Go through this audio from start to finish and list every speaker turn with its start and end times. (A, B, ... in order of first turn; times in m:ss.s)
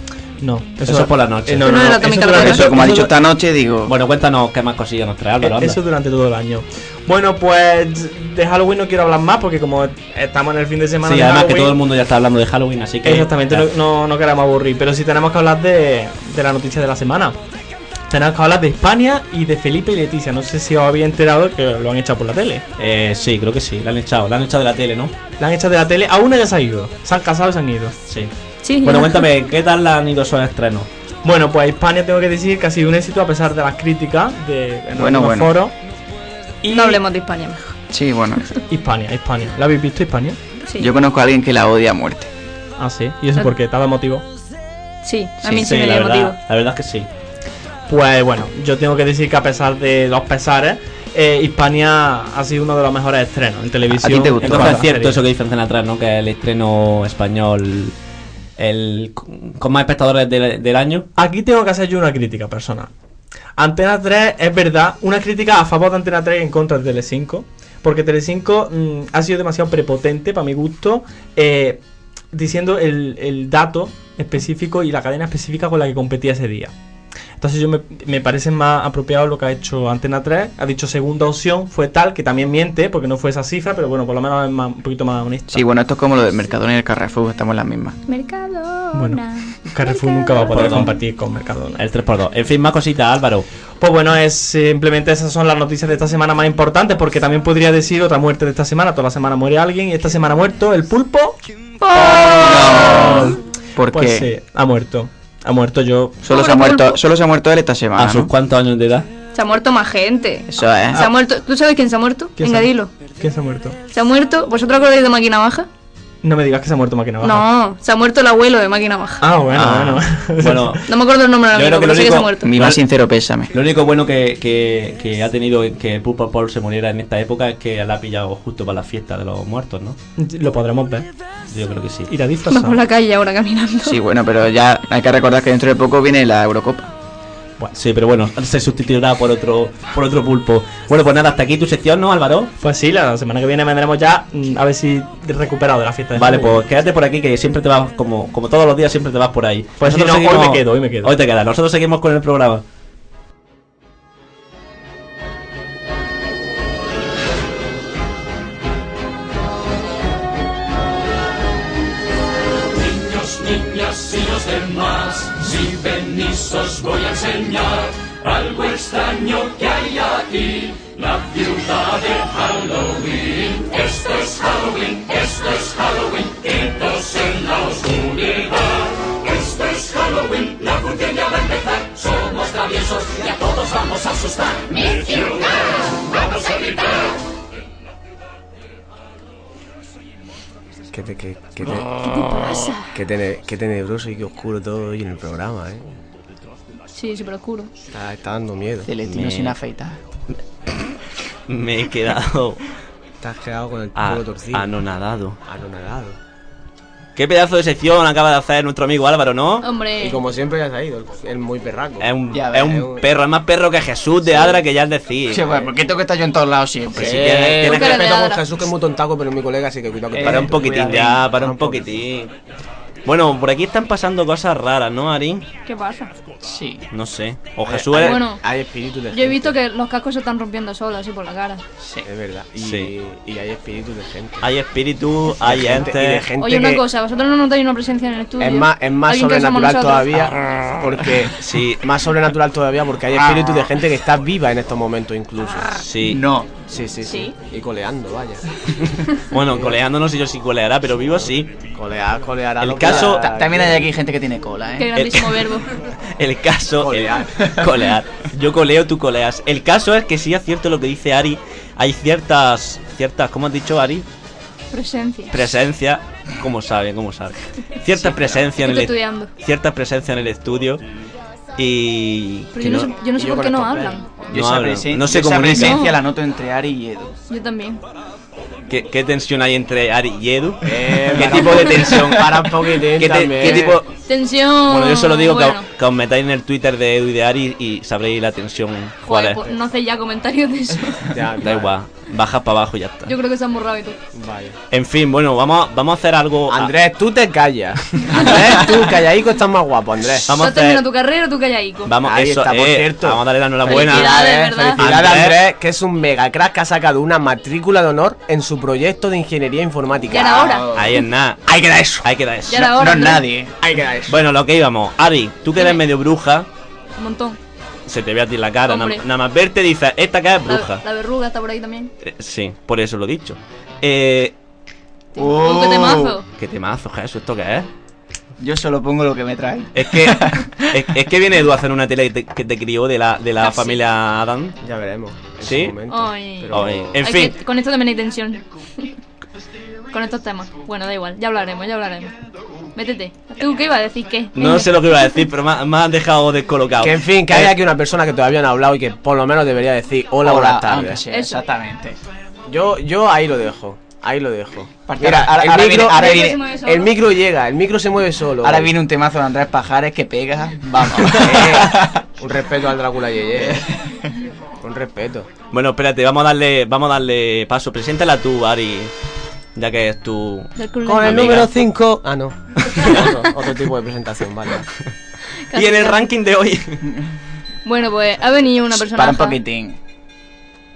0:00.4-0:03.1 A
0:00.8-0:01.7 B
0:01.6-0:02.7 C
0:02.3-0:03.9 D
0:03.9-0:05.8 B
0:05.4-0:11.8 A
0:11.0-0:13.6 B
0:13.0-0:17.4 A
0:18.1-0:22.6 A
0:22.8-0:25.1 B
0:25.4-0:28.0 A
0:28.6-0:29.3 C
0:28.8-0:30.9 B
0:31.2-0:35.7 A
0:34.9-0:35.6 D
0:36.6-0:37.0 A
0:36.7-0:37.7 C
0:37.9-0:38.5 D
0:38.7-0:40.4 A
0:40.8-0:42.3 D
0:42.8-0:44.2 A
0:45.0-0:46.4 C
0:45.5-0:47.1 B
0:47.9-0:55.2 A
0:54.0-0:54.8 D
0:54.4-0:57.9 B
0:58.6-1:01.1 B
1:01.2-1:02.9 A
1:03.6-1:11.8 A
1:12.3-1:16.7 A
1:17.4-1:25.7 A
1:25.5-1:28.0 D
1:28.1-1:30.5 C
1:28.9-1:31.8 A
1:30.5-1:30.9 B
1:31.8-1:33.5 B
1:33.8-1:41.4 A
1:41.8-1:42.8 C
1:42.0-1:43.4 A
1:42.3-1:44.3 D
1:43.9-1:46.2 A
1:46.2-1:48.3 D
1:46.3-1:47.0 C
1:48.0-1:49.1 B
1:49.3-1:52.9 C
1:50.5-1:51.0 D
1:52.4-1:53.8 A
1:53.9-1:55.7 C
1:56.2-1:57.5 A
1:57.2-1:59.2 C
1:59.2-2:00.8 A
1:59.6-2:00.0 D
1:59.6-2:00.8 B
2:00.8-2:02.5 C
2:01.5-2:02.8 B
2:02.4-2:03.5 D
2:03.5-2:10.0 B
2:10.2-2:11.1 A
2:11.5-2:12.1 B
2:12.1-2:12.8 A
2:12.5-2:14.0 C
2:13.8-2:16.9 D
2:17.8-2:22.5 B
2:22.6-2:26.6 A
2:26.2-2:32.6 B
2:29.8-2:31.1 A
3:10.9-3:11.9 E
3:12.0-3:12.9 C
3:12.9-3:15.8 E
3:16.9-3:17.7 C
3:17.9-3:18.9 E
3:18.8-3:20.0 D
3:19.0-3:19.6 B
3:21.5-3:22.6 B
3:23.2-3:24.7 E
3:24.0-3:25.4 B
3:25.5-3:26.2 E
3:27.2-3:29.7 B
3:29.6-3:30.2 C
3:30.0-3:33.0 E
3:32.0-3:35.5 B
3:32.3-3:32.8 D
3:35.3-3:37.6 D
3:36.9-3:38.2 B
3:37.0-3:42.0 E
3:37.6-3:38.4 C
3:40.1-3:41.2 D
3:40.2-3:42.3 B
3:43.0-3:45.5 B
3:45.7-3:46.1 C
3:46.4-3:46.8 D
3:46.9-3:48.2 B
3:47.6-3:49.5 E
3:48.0-3:48.4 C
3:49.1-3:51.6 C
3:51.8-3:52.0 D
3:52.0-3:54.5 E
3:52.6-3:52.9 B
3:54.4-3:56.3 B
3:55.4-3:56.8 E
3:56.4-4:00.2 C
3:58.4-4:05.8 E
4:01.4-4:01.8 B
4:03.1-4:03.6 D
4:05.8-4:06.2 B
4:06.0-4:06.5 D
4:06.7-4:08.4 E
4:07.0-4:07.3 C
4:09.3-4:11.5 B
4:09.5-4:09.8 E
4:11.7-4:13.8 E
4:12.6-4:13.3 B
4:12.8-4:14.9 D
4:14.8-4:15.7 C
4:14.9-4:15.5 B
4:16.2-4:24.0 B
4:16.8-4:17.4 E
4:17.4-4:17.8 D
4:24.7-4:25.5 C
4:25.3-4:30.8 B
4:28.5-4:29.3 C
4:31.6-4:32.9 B
4:32.5-4:34.0 C
4:33.2-4:34.0 E
4:34.3-4:37.2 D
4:34.3-4:35.8 B
4:35.5-4:36.0 C
4:37.3-4:37.8 C
4:38.7-4:43.9 B
4:40.6-4:43.8 E
4:44.0-4:45.6 C
4:44.7-4:49.4 B
4:49.0-4:51.1 C
4:51.1-4:51.7 E
4:51.4-4:53.1 B
4:53.1-4:54.0 C
4:54.1-4:54.6 E
4:54.7-4:56.8 B
4:56.5-5:00.3 E
4:58.1-4:58.7 B
5:00.3-5:00.8 B
5:00.3-5:01.9 C
5:01.8-5:04.2 B
5:02.0-5:10.7 E
5:03.7-5:04.8 C
5:04.8-5:05.4 B
5:10.1-5:10.7 C
5:10.7-5:11.5 B
5:11.5-5:13.7 D
5:12.0-5:12.7 B
5:12.5-5:13.2 C
5:13.6-5:14.2 E
5:14.1-5:16.5 B
5:15.6-5:15.8 C
5:17.0-5:17.4 C
5:17.9-5:20.8 B
5:18.7-5:19.0 C
5:20.5-5:21.9 C
5:22.0-5:24.3 B
5:25.2-5:26.2 C
5:25.2-5:26.2 D
5:26.4-5:27.7 B
5:28.4-5:30.8 D
5:29.8-5:34.6 B
5:33.4-5:33.8 C
5:34.6-5:37.0 E
5:35.4-5:35.8 B
5:35.9-5:38.9 C
5:36.5-5:37.4 B
5:39.9-5:42.1 C
5:42.8-5:45.2 C
5:44.4-5:47.6 B
5:46.8-5:51.0 E
5:50.2-5:52.0 D
5:51.1-5:51.4 C
5:52.5-5:58.7 E
5:54.9-5:56.4 D
5:55.9-5:56.9 C
5:58.4-6:02.0 D
6:01.1-6:03.7 E
6:03.4-6:04.0 D
6:04.6-6:05.3 E
6:05.5-6:08.9 B
6:09.5-6:11.5 B
6:10.6-6:11.5 C
6:10.8-6:14.7 E
6:12.8-6:13.1 B
6:15.5-6:16.0 C
6:15.5-6:16.8 B
6:17.6-6:19.4 C
6:18.8-6:19.8 D